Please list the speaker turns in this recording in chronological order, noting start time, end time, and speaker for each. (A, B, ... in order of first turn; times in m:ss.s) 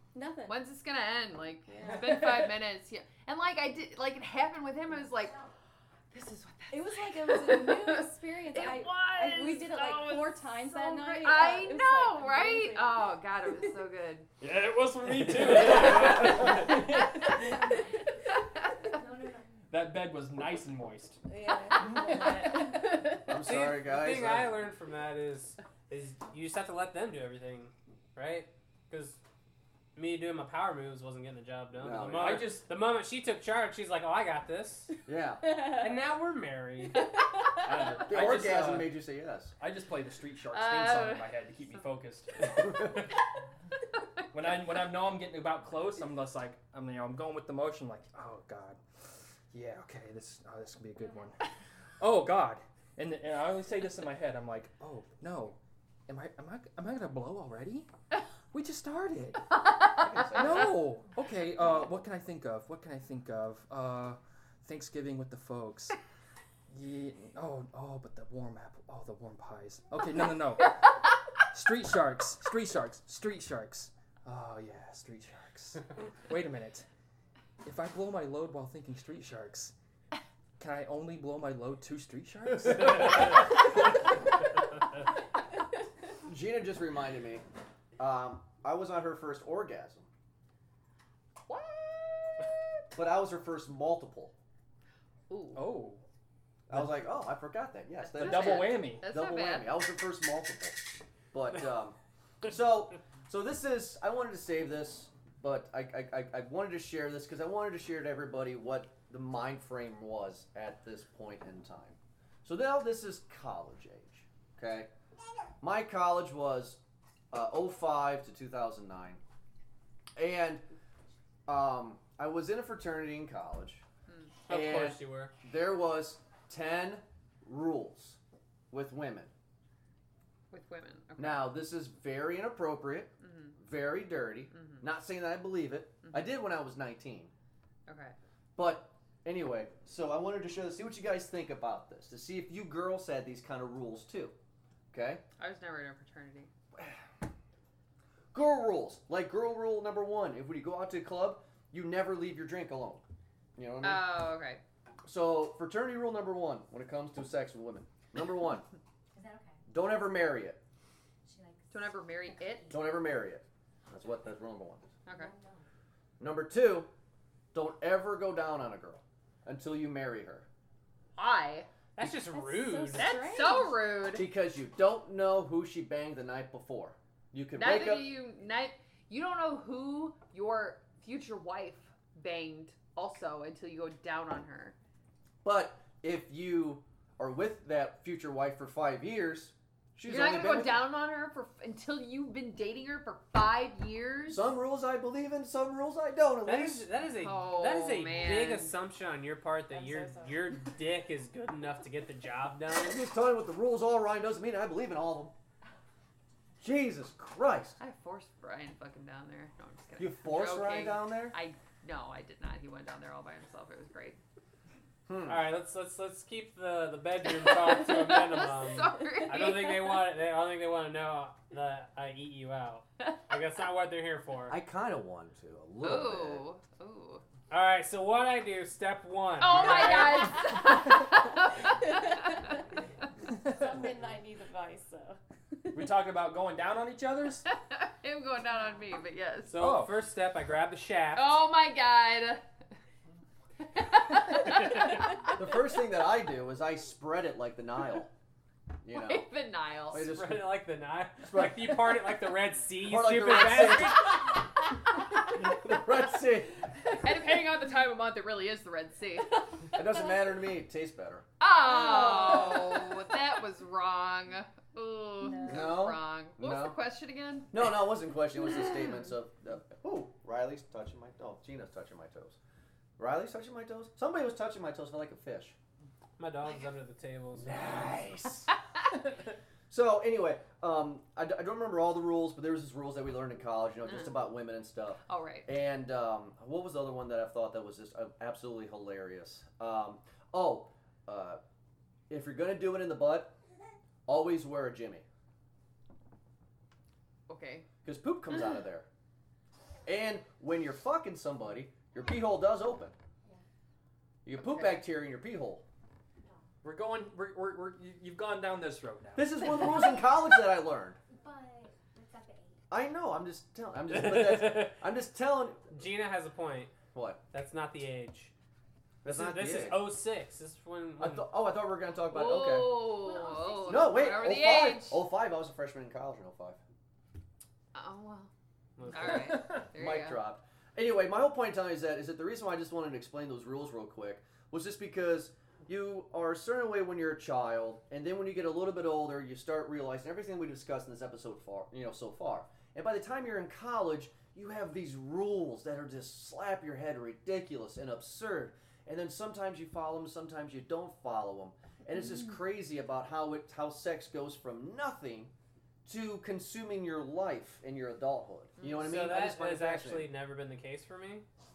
0:00.1-0:00.6 A
0:00.4-0:05.4 B
0:01.8-0:02.3 A
0:04.9-0:05.5 C
0:06.1-0:14.3 B
0:06.7-0:13.6 A
0:14.4-0:17.6 D
0:15.4-0:16.6 E
0:17.4-0:18.0 C
0:18.9-0:19.4 C
0:19.7-0:21.2 D
0:21.2-0:23.3 A
0:23.2-0:24.6 E
0:23.4-0:29.2 F
0:30.0-0:34.9 F
0:31.8-0:32.5 E
0:32.2-0:32.7 D
0:35.1-0:35.6 E
0:35.4-0:35.9 A
0:35.8-0:37.1 F
0:37.0-0:37.7 A
0:37.6-0:38.9 D
0:38.0-0:39.5 E
0:39.6-0:43.1 D
0:40.5-0:41.3 B
0:42.6-0:43.0 E
0:44.3-0:48.8 D
0:49.5-0:51.4 D
0:52.0-0:57.9 D
0:58.5-0:59.5 D
0:59.5-1:00.7 B
0:59.9-1:00.8 E
1:00.3-1:06.0 D
1:06.7-1:16.9 D
1:17.6-1:19.7 D
1:20.6-1:23.9 D
1:26.2-1:27.4 E
1:28.0-1:30.1 E
1:31.5-1:32.8 B
1:32.9-1:34.3 E
1:35.3-1:35.7 B
1:35.5-1:36.0 D
1:36.7-1:54.9 E
1:38.0-1:39.7 B
1:38.1-1:39.0 D
1:55.6-1:56.8 E
1:57.3-1:59.2 E
2:00.2-2:00.6 E
2:01.5-2:03.8 E
2:04.5-2:05.3 F
2:04.5-2:08.2 E
2:08.7-2:09.3 E
2:10.5-2:11.5 B
2:11.2-2:17.3 E
2:13.2-2:13.6 B
2:14.5-2:14.8 B
2:16.0-2:16.3 B
2:17.9-2:18.2 B
2:18.6-2:24.3 E
2:24.9-2:25.2 E
2:25.4-2:26.5 B
2:26.7-2:27.0 E
2:28.3-2:33.0 E
2:33.6-2:34.2 E
2:33.8-2:34.6 B
2:35.0-2:38.6 E
2:39.1-2:39.6 C
2:39.7-2:40.6 E
2:41.2-2:43.0 C
2:41.7-2:42.6 B
2:42.7-2:44.9 E
2:45.0-2:45.3 B
2:45.1-2:45.6 C
2:46.2-2:46.9 E
2:47.5-2:50.5 E
2:51.2-2:51.7 B
2:52.0-2:53.2 F
2:52.1-2:53.9 A
2:53.0-2:54.2 B
2:54.1-2:58.1 E
2:57.6-3:04.8 B
3:05.4-3:10.9 E
3:10.0-3:14.5 B
3:14.3-3:16.9 E
3:16.4-3:23.0 F
3:17.1-3:18.7 B
3:19.7-3:20.5 A
3:22.7-3:25.3 E
3:26.6-3:27.8 E
3:27.8-3:34.2 B
3:30.0-3:31.4 E
3:35.1-3:35.5 E
3:35.2-3:44.6 F
3:37.4-3:40.0 B
3:44.5-3:46.4 E
3:45.8-3:47.2 B
3:47.5-3:50.6 F
3:49.4-3:52.5 B
3:51.6-3:52.6 A
3:53.4-3:55.8 A
3:55.7-3:57.4 D
3:57.5-3:59.5 B
3:59.4-4:01.4 F
3:59.6-3:59.9 D
4:01.1-4:02.4 B
4:03.6-4:05.3 B
4:05.3-4:08.1 E
4:08.8-4:09.3 E
4:09.0-4:10.1 B
4:09.9-4:10.6 E
4:09.9-4:14.3 F
4:11.2-4:12.0 E
4:12.8-4:14.4 E
4:15.2-4:16.7 E
4:16.9-4:19.8 B
4:19.7-4:21.2 E
4:21.4-4:27.7 B
4:21.6-4:23.0 A
4:25.2-4:25.8 A
4:25.4-4:26.8 E
4:27.5-4:32.4 E
4:33.0-4:35.6 E
4:36.2-4:38.0 F
4:37.4-4:38.5 E
4:39.7-4:51.4 E
4:43.8-4:44.1 B
4:45.1-4:45.4 B
4:52.1-4:53.4 E
4:54.1-4:55.0 E
4:57.3-4:57.7 B
4:57.8-4:58.9 E
4:59.8-5:02.9 E
5:04.2-5:05.6 E
5:04.4-5:04.8 B
5:06.6-5:09.3 D
5:09.2-5:11.0 E
5:11.1-5:12.6 C
5:12.7-5:15.6 E
5:13.9-5:14.8 F
5:15.7-5:16.7 F
5:16.9-5:17.2 E
5:17.3-5:18.3 F
5:19.0-5:19.9 E
5:19.0-5:21.3 F
5:21.0-5:23.0 E
5:22.1-5:25.0 B
5:22.9-5:24.5 C
5:23.7-5:26.6 E
5:27.7-5:28.3 B
5:28.8-5:29.4 F
5:28.9-5:30.2 B
5:29.1-5:29.6 D
5:29.5-5:55.3 E
5:55.8-6:00.1 E
5:58.6-5:58.8 B
5:58.8-6:01.2 F